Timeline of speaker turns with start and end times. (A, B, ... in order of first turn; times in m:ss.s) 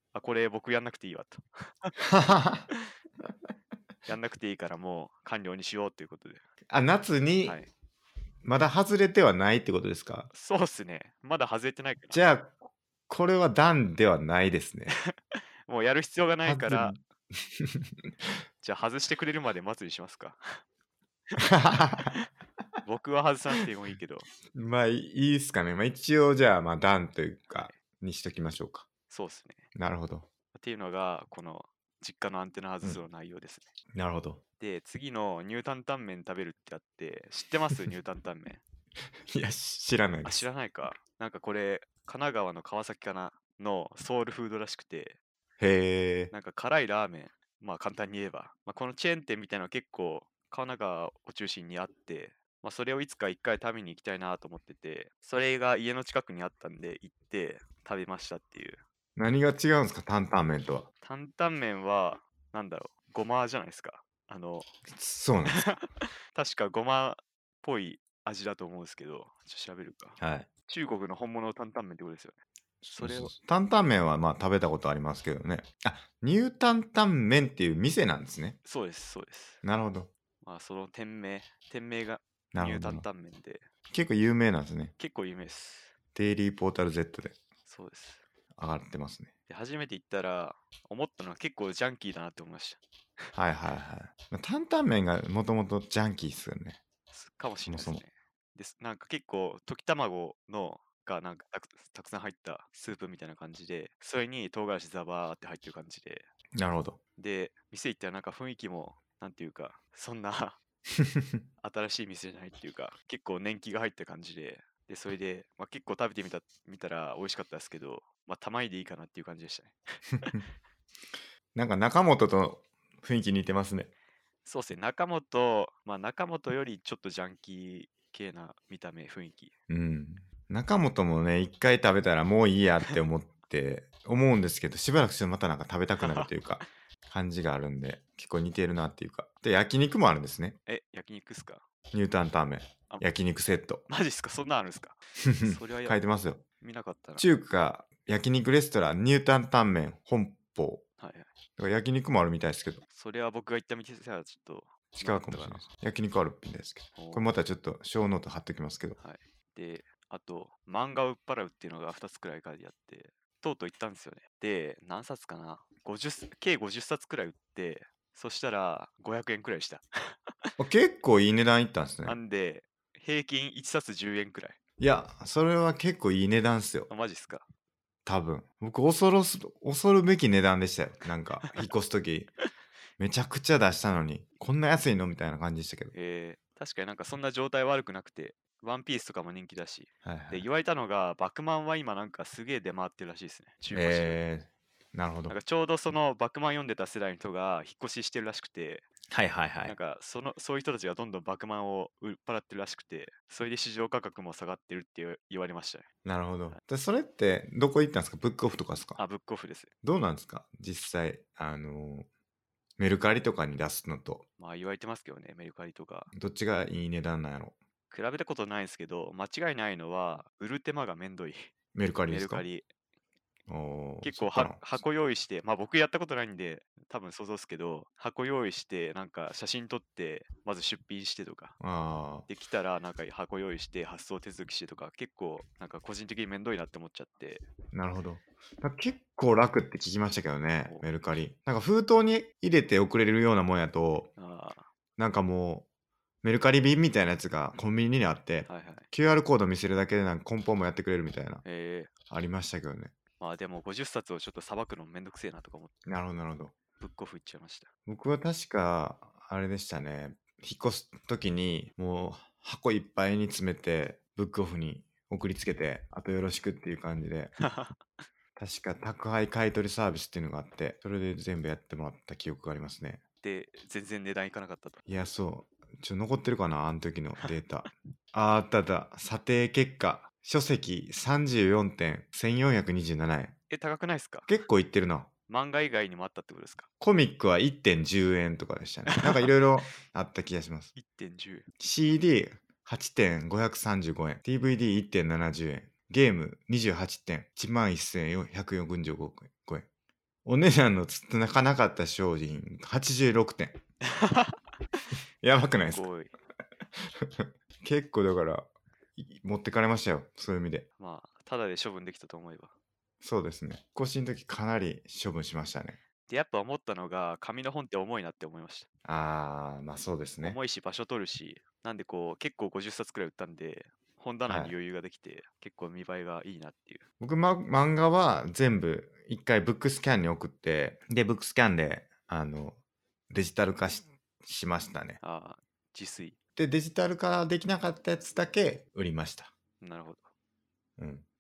0:00.1-0:02.0 A
0:02.0-0:02.7 B
0:04.1-0:06.4 A
0:06.7-0:07.6 B
0:07.4-0:07.7 A
0:08.4-0:10.3 B
0:10.3-0:12.2 A
0:12.1-0:12.6 B
0:13.1-0:15.0 B
0:15.0-0:17.0 A
0:16.5-0:17.9 B
0:18.6-0:20.6 A
0:21.4-0:22.2 B
0:22.8-0:24.3 A
0:24.5-0:28.9 B
0:27.5-0:27.8 A
0:29.1-0:29.7 A
0:29.7-0:30.3 B
0:30.5-0:33.7 A
0:33.9-0:34.4 B
0:34.6-0:38.6 A
0:39.3-0:40.4 B
0:40.2-0:45.2 A
0:45.6-0:46.3 B
0:46.3-0:58.8 A
0:59.2-1:00.9 B
1:01.0-1:04.7 A
1:04.9-1:05.8 B
1:05.5-1:12.4 A
1:10.2-1:10.5 B
1:12.8-1:18.6 B
1:12.9-1:13.3 A
1:18.6-1:19.6 A
1:19.6-1:20.1 B
1:20.4-1:23.7 A
1:22.5-1:23.1 B
1:23.9-1:24.9 B
1:25.0-1:25.9 A
1:26.2-1:27.4 B
1:27.7-1:28.2 A
1:28.6-1:29.3 B
1:29.5-1:32.8 A
1:33.4-1:36.8 B
1:37.1-1:46.3 A
1:37.7-1:38.0 B
1:46.6-1:47.0 B
1:47.2-1:50.6 A
1:51.0-1:51.4 B
1:51.6-2:00.4 A
2:01.6-2:03.9 B
2:04.4-2:09.5 A
2:09.7-2:20.6 B
2:16.0-2:16.3 A
2:20.7-2:21.6 A
2:21.9-2:23.9 B
2:23.9-2:27.3 A
2:25.2-2:26.4 B
2:27.2-2:30.8 B
2:31.0-2:31.3 A
2:31.6-2:32.8 B
2:32.9-2:35.6 A
2:35.0-2:39.0 B
2:37.0-2:37.3 A
2:39.0-2:50.5 A
2:50.6-2:52.2 B
2:52.0-2:54.6 A
2:54.8-2:56.9 B
2:56.9-2:57.5 A
2:58.0-3:02.3 B
3:03.0-3:05.9 B
3:05.9-3:14.2 A
3:10.0-3:10.5 B
3:13.7-3:15.4 B
3:15.3-3:18.9 A
3:19.1-3:19.8 B
3:19.6-3:25.9 A
3:26.0-3:29.0 B
3:29.0-3:29.7 A
3:29.8-3:32.1 B
3:32.8-3:34.2 B
3:34.4-3:36.1 A
3:36.1-3:37.6 B
3:37.9-3:41.5 A
3:41.7-3:42.5 B
3:42.1-3:42.7 A
3:43.5-3:44.8 B
3:44.0-3:51.6 A
3:51.6-3:52.3 B
3:52.3-3:57.5 A
3:57.7-4:04.1 B
4:04.2-4:04.7 A
4:05.0-4:05.7 B
4:06.2-4:11.4 B
4:08.5-4:08.9 A
4:11.4-4:11.9 A
4:12.1-4:12.9 B
4:13.2-4:15.7 A
4:15.9-4:16.5 B
4:16.8-4:17.7 A
4:17.9-4:27.3 B
4:27.4-4:27.8 A
4:28.4-4:33.0 B
4:33.2-4:34.8 A
4:34.9-4:43.3 B
4:43.5-4:44.3 A
4:44.3-4:45.1 B
4:45.3-4:46.7 A
4:46.8-4:50.7 B
4:49.0-4:49.3 A
4:50.8-4:51.5 A
4:51.6-4:59.7 B
5:00.2-5:03.6 B
5:03.9-5:04.4 A
5:05.2-5:05.9 B
5:05.6-5:06.1 A
5:07.0-5:10.7 B
5:10.8-5:12.5 A
5:13.0-5:15.8 B
5:16.1-5:18.7 A
5:18.8-5:20.4 B
5:20.2-5:26.8 A
5:24.3-5:24.5 B
5:27.0-5:32.6 B
5:33.1-5:35.0 B
5:35.0-5:36.2 A
5:36.4-5:39.3 B
5:39.6-5:40.1 A
5:40.8-5:41.1 B